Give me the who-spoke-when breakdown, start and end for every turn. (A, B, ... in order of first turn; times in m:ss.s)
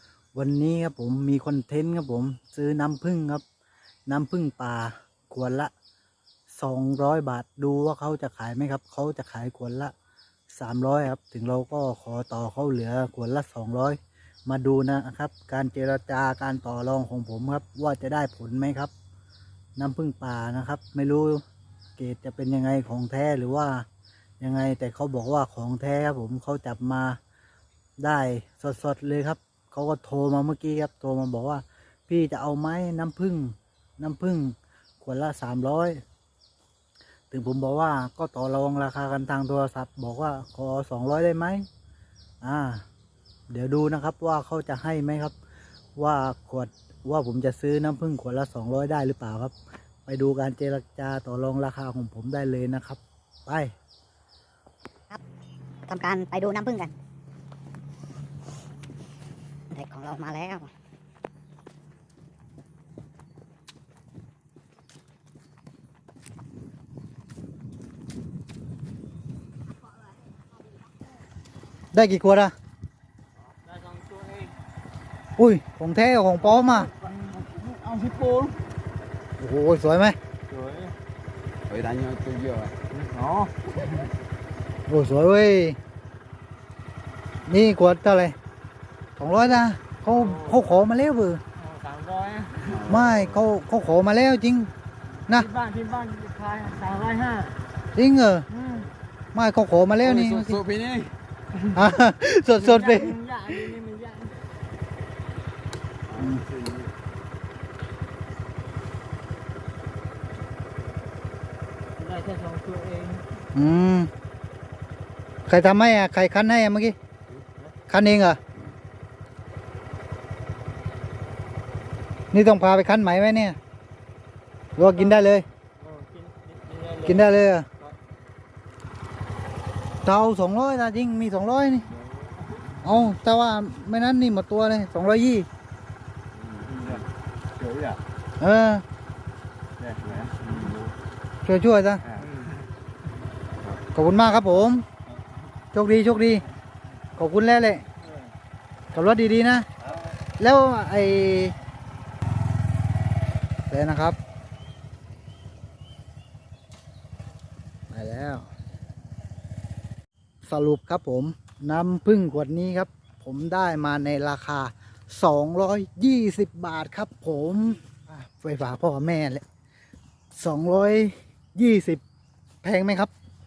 0:00.4-0:03.4 A
0:04.1-0:05.7 A
0:06.5-0:09.9 A
0:10.5-0:18.9 A
0:19.8-0:21.4 A
0:22.0-0:23.8 A
0:24.4-0:27.2 A
0:28.0-0:36.0 A
0:37.3-0:41.7 A
0:42.4-0:42.8 A
0:43.5-0:45.3 A
0:46.0-0:49.5 A
0:50.1-0:53.7 A
0:55.9-0:57.0 B
0:59.7-1:00.7 B
1:11.9-1:12.5 A
1:13.6-1:14.5 C
1:15.4-1:16.9 A
1:17.0-1:18.6 C
1:19.4-1:20.2 A
1:20.5-1:20.9 C
1:21.7-1:22.8 D
1:22.9-1:23.7 C
1:24.9-1:25.8 A
1:27.5-1:28.4 A
1:29.2-1:31.4 A
1:30.1-1:30.6 C
1:31.6-1:32.8 C
1:32.6-1:33.5 D
1:32.8-1:34.7 A
1:35.3-1:37.6 C
1:38.0-1:38.5 A
1:38.5-1:38.9 C
1:39.3-1:40.6 A
1:40.0-1:41.2 D
1:41.7-1:43.2 A
1:42.6-1:44.4 C
1:46.1-1:46.9 D
1:46.2-1:46.4 A
1:52.0-1:53.2 C
1:53.5-1:54.1 A
1:55.5-1:57.0 A
1:57.9-1:58.4 A
2:02.3-2:03.6 A
2:04.8-2:05.5 A
2:05.8-2:07.2 C
2:07.0-2:07.7 A
2:10.0-2:11.9 A
2:12.8-2:15.5 A
2:16.4-2:17.1 D
2:17.6-2:18.0 C
2:18.4-2:18.8 A
2:20.1-2:20.8 D
2:21.4-2:22.0 A
2:23.9-2:24.8 A
2:25.7-2:26.4 A
2:27.2-2:27.8 A
2:28.9-2:29.7 A
2:30.4-2:31.6 A
2:33.7-2:34.2 A
2:37.9-2:38.5 A
2:40.4-2:49.4 A
2:50.4-2:52.0 A
2:52.6-2:53.1 A